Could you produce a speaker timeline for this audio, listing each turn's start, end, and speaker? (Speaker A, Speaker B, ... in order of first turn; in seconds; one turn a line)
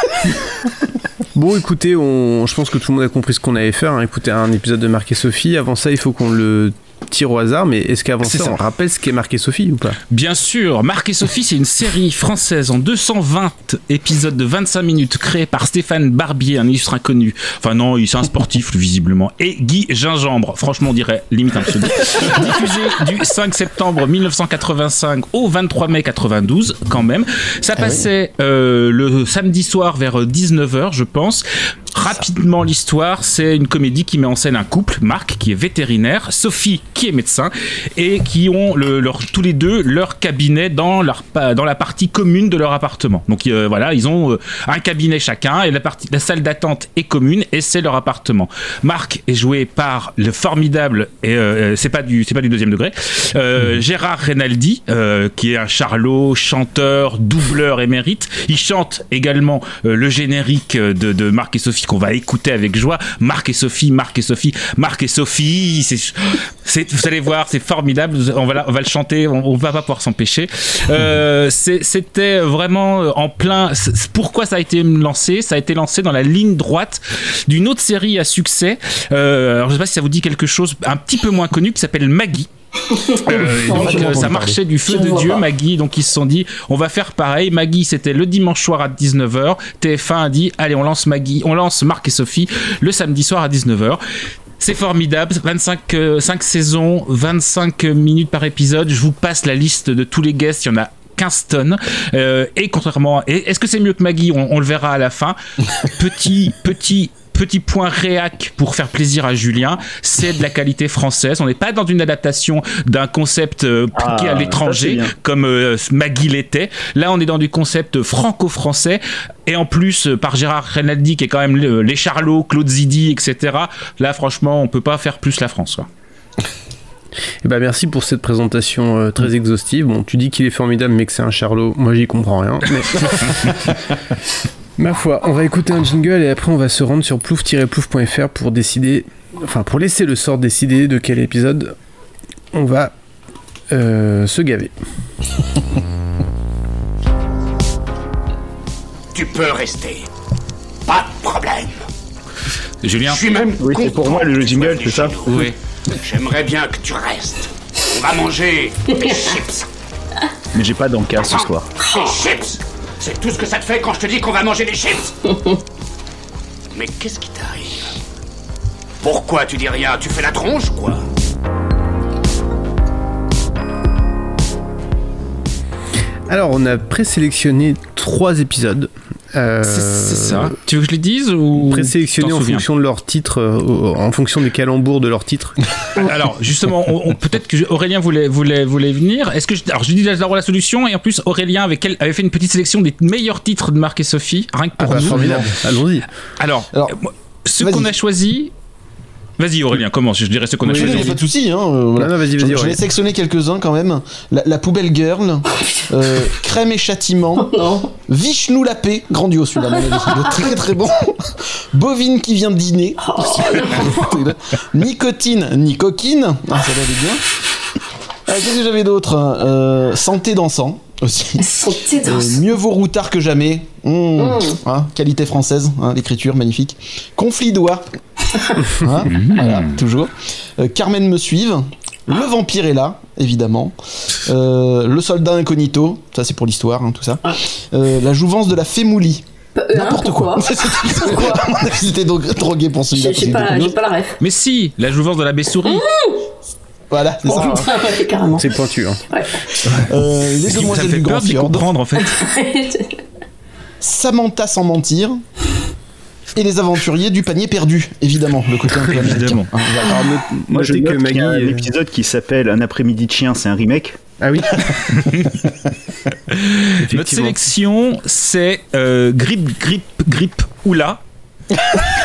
Speaker A: 1.3-10.0
Speaker B: 8.2-8.6
Speaker B: 10.1-82.5
Speaker C: 27.8-28.1
Speaker D: 82.9-84.3
Speaker B: 83.1-94.0
Speaker C: 83.4-84.6
Speaker D: 84.9-85.5
Speaker B: 94.6-125.9
Speaker E: 113.9-115.1
Speaker A: 127.4-133.9
Speaker A: 134.8-141.8
Speaker A: 142.5-142.9
Speaker A: 143.7-144.7
Speaker F: 149.1-150.1
Speaker F: 150.9-151.8
Speaker B: 152.8-153.2
Speaker F: 153.0-159.7
Speaker E: 153.6-155.3
Speaker B: 155.3-155.6
Speaker E: 160.5-161.7
Speaker F: 161.2-165.2
Speaker D: 161.8-162.1
Speaker F: 166.7-167.9
Speaker F: 169.0-171.0
Speaker A: 176.3-180.6
Speaker B: 179.6-182.7
Speaker A: 181.6-185.6
Speaker B: 186.0-195.6
Speaker A: 194.8-196.1
Speaker C: 194.8-195.6
Speaker B: 196.4-198.5
Speaker C: 196.7-197.0
Speaker C: 197.6-197.9
Speaker B: 199.4-201.2
Speaker A: 200.6-201.2
Speaker C: 200.7-207.5
Speaker A: 202.0-202.8
Speaker D: 207.4-207.9
Speaker C: 208.1-217.2
Speaker D: 213.0-214.1
Speaker C: 218.3-221.4
Speaker D: 221.4-222.4
Speaker C: 222.0-227.9
Speaker D: 224.2-224.6
Speaker C: 228.7-243.8
Speaker B: 229.1-229.8
Speaker D: 239.6-241.5
Speaker D: 242.9-244.2
Speaker B: 244.2-245.8
Speaker D: 245.7-246.2
Speaker C: 246.9-247.8
Speaker D: 247.3-248.5
Speaker A: 248.4-249.0
Speaker D: 249.1-249.5
Speaker C: 249.7-251.7
Speaker B: 250.5-252.2
Speaker D: 252.1-253.0
Speaker C: 253.8-255.2
Speaker C: 256.4-260.2
Speaker B: 258.7-259.5
Speaker A: 259.8-261.7
Speaker E: 260.5-264.0
Speaker A: 264.2-264.7
Speaker B: 266.3-271.0
Speaker A: 266.8-267.4